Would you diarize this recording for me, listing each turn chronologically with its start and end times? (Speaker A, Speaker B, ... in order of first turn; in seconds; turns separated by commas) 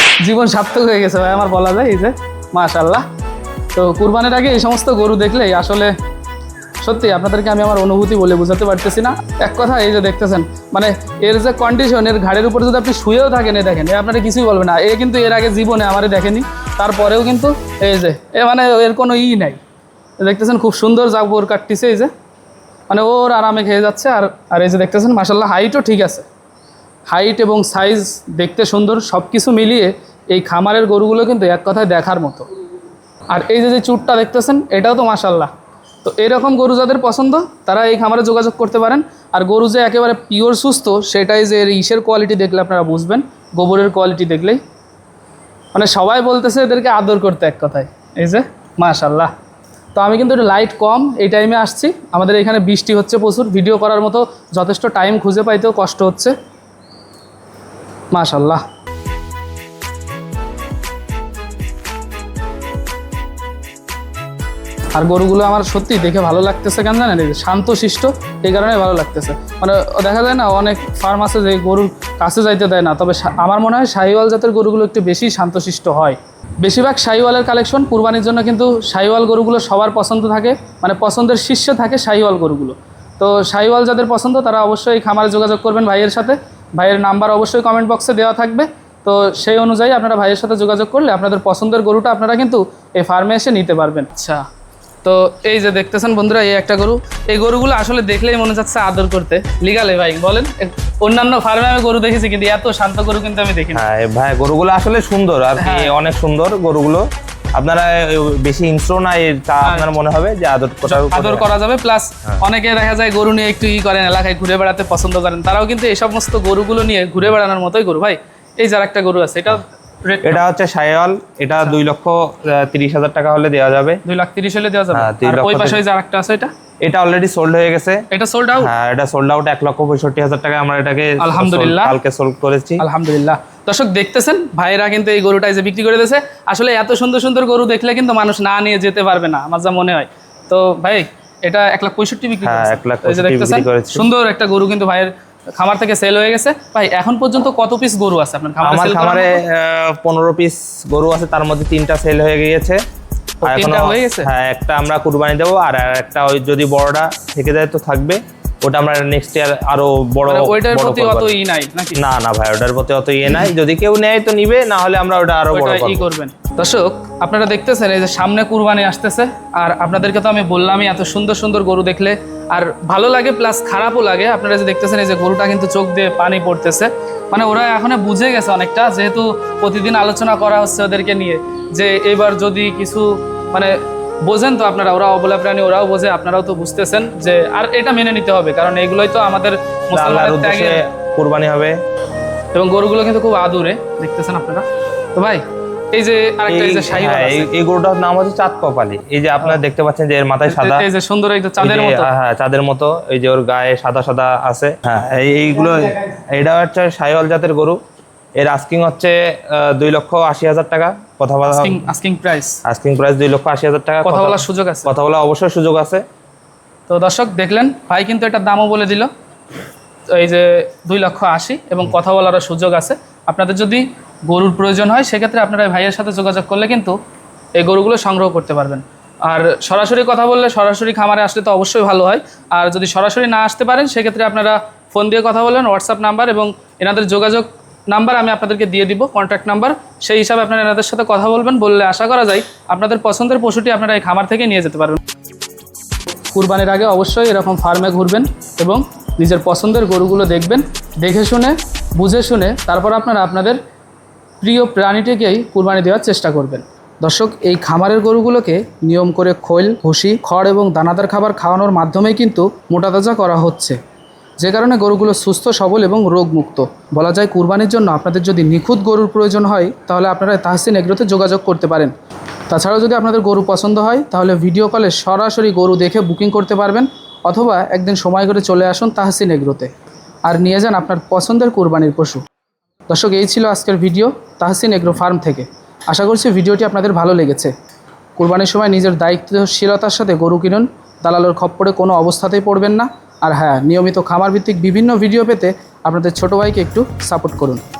Speaker A: 0.2-3.0, Speaker A: 3.8-5.9, Speaker A: 6.8-19.6, Speaker A: 20.2-22.1, Speaker A: 22.9-26.3, Speaker A: 27.1-32.5, Speaker A: 33.3-35.5, Speaker A: 36.0-44.6, Speaker A: 45.7-49.3, Speaker A: 50.0-56.4, Speaker A: 58.1-58.6, Speaker A: 65.0-94.5, Speaker A: 95.0-103.8, Speaker B: 103.7-111.5, Speaker A: 105.6-106.0, Speaker A: 110.9-120.4, Speaker B: 120.2-124.0, Speaker A: 124.0-126.5, Speaker B: 124.9-125.8, Speaker B: 126.8-128.0, Speaker A: 128.1-128.7, Speaker B: 128.6-132.8, Speaker A: 131.2-132.0, Speaker A: 132.8-149.4, Speaker B: 142.4-144.1, Speaker B: 148.6-152.8, Speaker A: 153.4-154.3, Speaker B: 153.4-161.3, Speaker A: 160.3-162.0, Speaker B: 162.0-166.0, Speaker A: 165.5-190.8, Speaker B: 189.9-191.8, Speaker A: 192.5-197.5, Speaker B: 196.5-200.9, Speaker A: 200.5-202.1, Speaker B: 201.6-207.8, Speaker B: 208.4-211.8, Speaker A: 211.5-212.6, Speaker B: 212.7-216.0, Speaker A: 214.0-214.9, Speaker A: 216.9-219.1, Speaker A: 220.1-227.0, Speaker A: 227.6-245.0, Speaker A: 246.3-253.6, Speaker A: 254.4-263.8, Speaker A: 264.4-271.9, Speaker A: 272.5-279.7, Speaker A: 280.3-282.2, Speaker A: 282.9-287.5, Speaker A: 288.2-297.6